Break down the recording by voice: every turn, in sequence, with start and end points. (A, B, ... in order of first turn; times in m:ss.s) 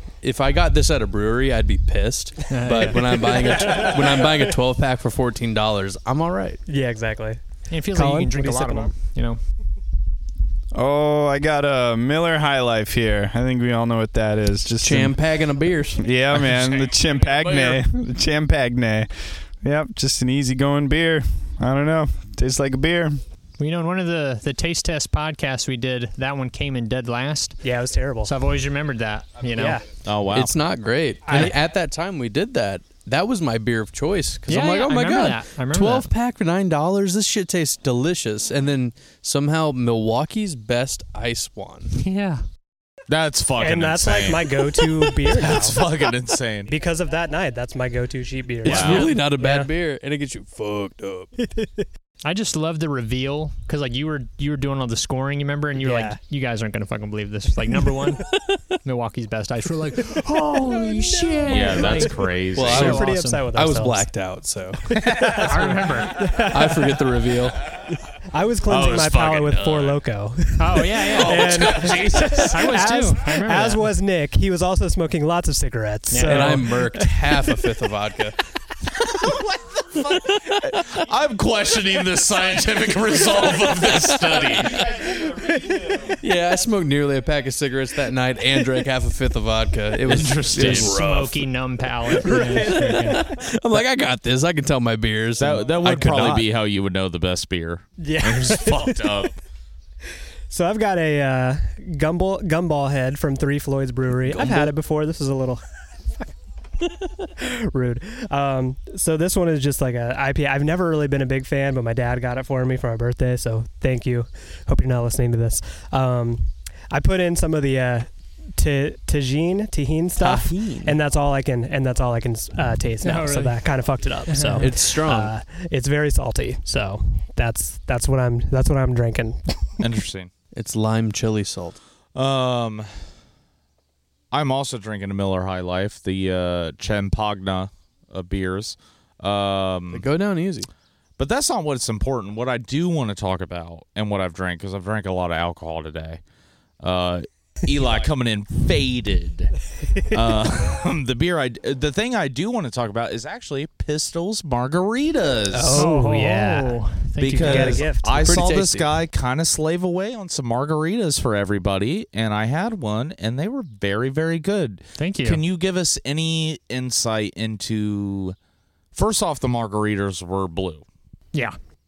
0:00.2-0:06.6 A
0:02.5-0:03.4 B
0:03.1-0:04.4 C
0:06.7-0:07.4 C
0:07.7-0:09.4 B
0:07.9-0:08.9 C
0:10.7-0:15.2 D
0:14.8-0:16.5 A
0:16.0-0:23.2 D
0:17.4-0:17.8 A
0:23.6-0:27.6 B
0:27.6-0:28.3 C
0:28.2-0:29.8 B
0:29.5-0:29.9 C
0:30.0-0:30.5 E
0:30.3-0:41.9 A
0:31.3-0:31.5 C
0:34.5-0:36.1 B
0:41.9-0:42.4 B
0:43.1-0:46.7 E
0:43.6-0:45.9 C
0:46.7-0:49.7 C
0:48.6-0:51.3 A
0:48.6-0:49.1 E
0:51.4-0:51.9 C
0:52.2-0:58.2 B
0:55.8-0:56.2 C
0:58.8-1:02.1 B
1:00.4-1:04.0 C
1:01.4-1:03.0 E
1:02.5-1:04.8 A
1:02.7-1:03.5 B
1:04.8-1:07.0 C
1:05.0-1:05.4 E
1:05.3-1:06.2 B
1:06.4-1:07.6 A
1:08.3-1:17.7 C
1:08.7-1:10.0 E
1:10.6-1:11.9 B
1:11.0-1:12.8 E
1:12.5-1:13.9 B
1:16.1-1:16.6 B
1:16.2-1:18.4 A
1:19.1-1:25.1 E
1:20.2-1:20.8 A
1:23.8-1:25.5 A
1:25.4-1:25.8 C
1:26.1-1:31.4 A
1:30.0-1:31.0 E
1:30.5-1:33.2 B
1:32.2-1:36.4 A
1:32.2-1:33.2 C
1:35.4-1:39.4 E
1:38.0-1:39.2 C
1:40.5-1:45.6 C
1:44.3-1:44.7 A
1:47.2-2:09.8 C
2:00.2-2:01.0 A
2:03.0-2:03.6 B
2:04.3-2:04.7 B
2:04.6-2:05.3 A
2:09.8-2:10.3 E
2:10.5-2:11.8 A
2:12.1-2:12.9 E
2:14.3-2:20.1 E
2:19.9-2:20.7 A
2:21.2-2:26.2 E
2:26.8-2:29.5 E
2:30.1-2:35.9 E
2:35.5-2:36.8 C
2:35.7-2:37.9 B
2:37.2-2:48.4 E
2:37.4-2:38.2 C
2:38.2-2:38.9 A
2:45.0-2:45.4 B
2:48.9-2:50.8 E